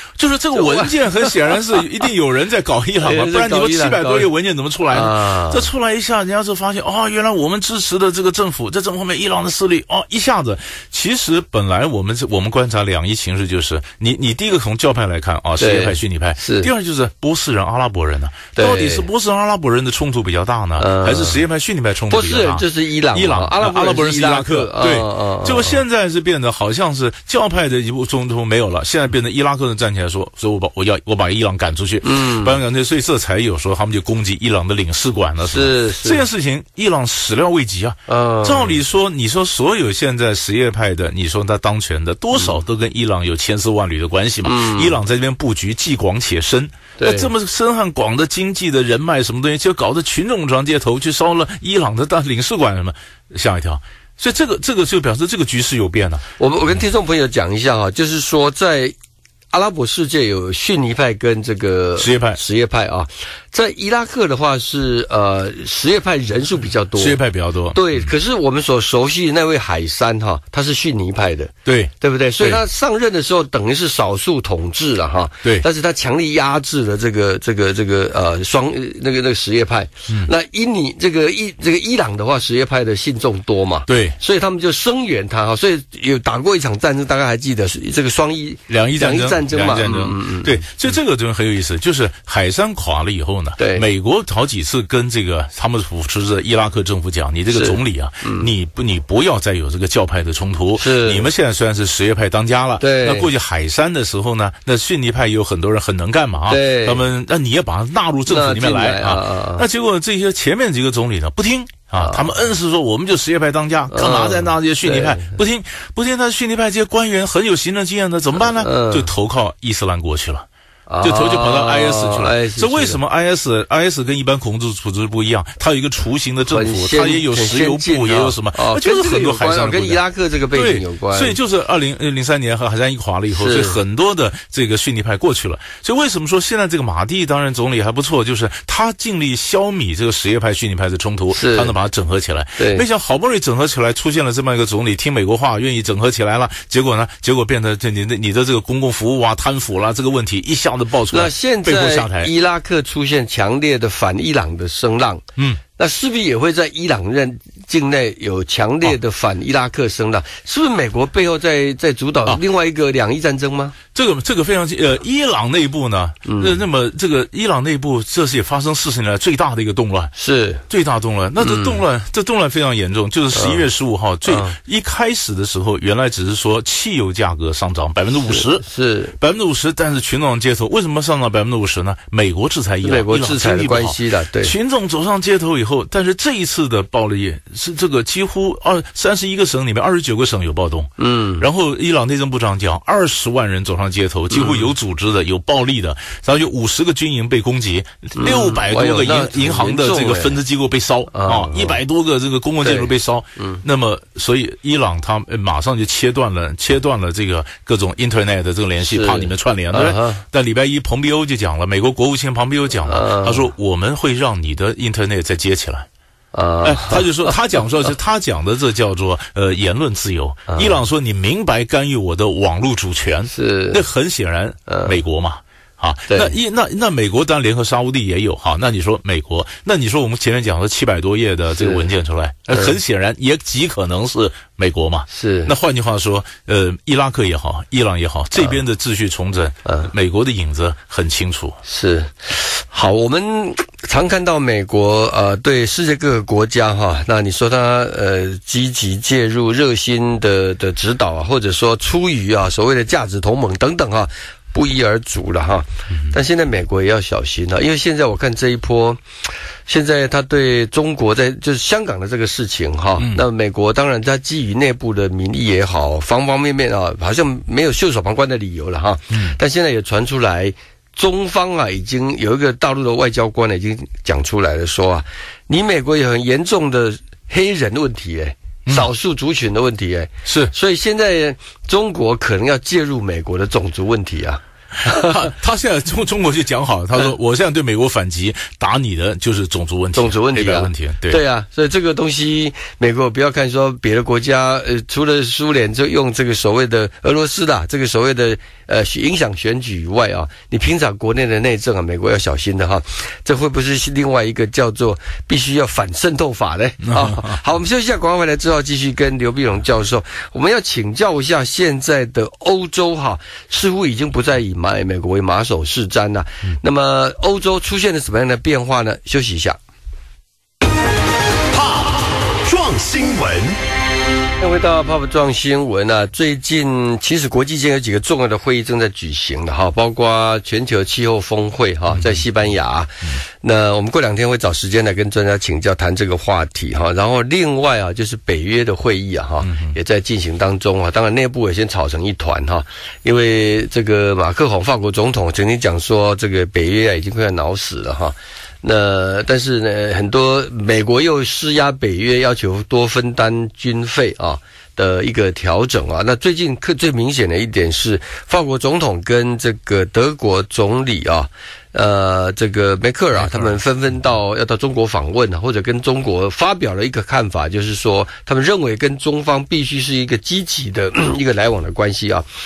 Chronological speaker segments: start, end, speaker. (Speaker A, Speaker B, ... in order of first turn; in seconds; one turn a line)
Speaker A: 0.2-56.2
Speaker B: 0.5-1.7
Speaker B: 3.0-4.3
Speaker B: 4.9-5.7
Speaker B: 15.6-16.7
Speaker B: 18.6-19.1
Speaker B: 20.8-21.4
Speaker B: 22.1-25.8
Speaker B: 32.0-32.6
Speaker B: 35.5-36.2
Speaker B: 38.1-38.8
Speaker B: 44.4-45.0
Speaker B: 47.0-47.3
Speaker B: 56.4-59.0
Speaker B: 59.5-67.2
Speaker A: 62.0-62.4
Speaker A: 67.0-68.0
Speaker B: 67.7-90.6
Speaker A: 71.7-72.6
Speaker A: 83.9-84.2
Speaker A: 88.7-120.5
Speaker B: 93.6-93.9
Speaker B: 97.5-98.5
Speaker B: 100.8-101.3
Speaker B: 102.8-103.3
Speaker B: 106.5-107.0
Speaker B: 108.3-109.7
Speaker B: 112.0-112.4
Speaker B: 113.9-115.4
Speaker B: 118.4-119.1
Speaker B: 120.9-123.0
Speaker A: 121.0-130.0
Speaker B: 126.5-131.4
Speaker A: 130.5-152.3
Speaker B: 133.3-133.8
Speaker B: 141.3-141.7
Speaker B: 142.6-142.8
Speaker B: 151.1-155.2
Speaker B: 155.8-163.8
Speaker A: 163.9-170.1
Speaker B: 166.2-166.6
Speaker B: 170.2-170.6
Speaker A: 170.7-178.6
Speaker B: 171.4-171.8
Speaker B: 173.3-173.7
Speaker B: 174.3-174.6
Speaker B: 178.3-179.2
Speaker A: 179.2-215.9
Speaker B: 182.8-184.6
Speaker B: 191.0-191.5
Speaker B: 194.3-194.7
Speaker B: 198.2-200.4
Speaker B: 201.1-201.8
Speaker B: 202.6-203.6
Speaker B: 208.8-210.2
Speaker B: 212.9-213.5
Speaker B: 216.3-217.4
Speaker A: 216.6-241.6
Speaker B: 220.5-220.8
Speaker B: 223.3-223.8
Speaker B: 224.7-225.0
Speaker B: 226.1-226.3
Speaker B: 231.5-231.9
Speaker B: 232.5-232.8
Speaker B: 235.1-235.5
Speaker B: 239.7-239.9
Speaker B: 241.7-259.0
Speaker B: 259.7-285.2
Speaker A: 263.0-263.2
Speaker A: 269.1-269.4
Speaker A: 280.2-280.5
Speaker A: 284.8-291.2
Speaker B: 289.9-319.6
Speaker A: 306.8-307.4
Speaker C: 321.5-323.6
Speaker B: 324.4-372.2
Speaker A: 331.9-332.2
Speaker A: 339.4-339.8
Speaker A: 363.2-363.6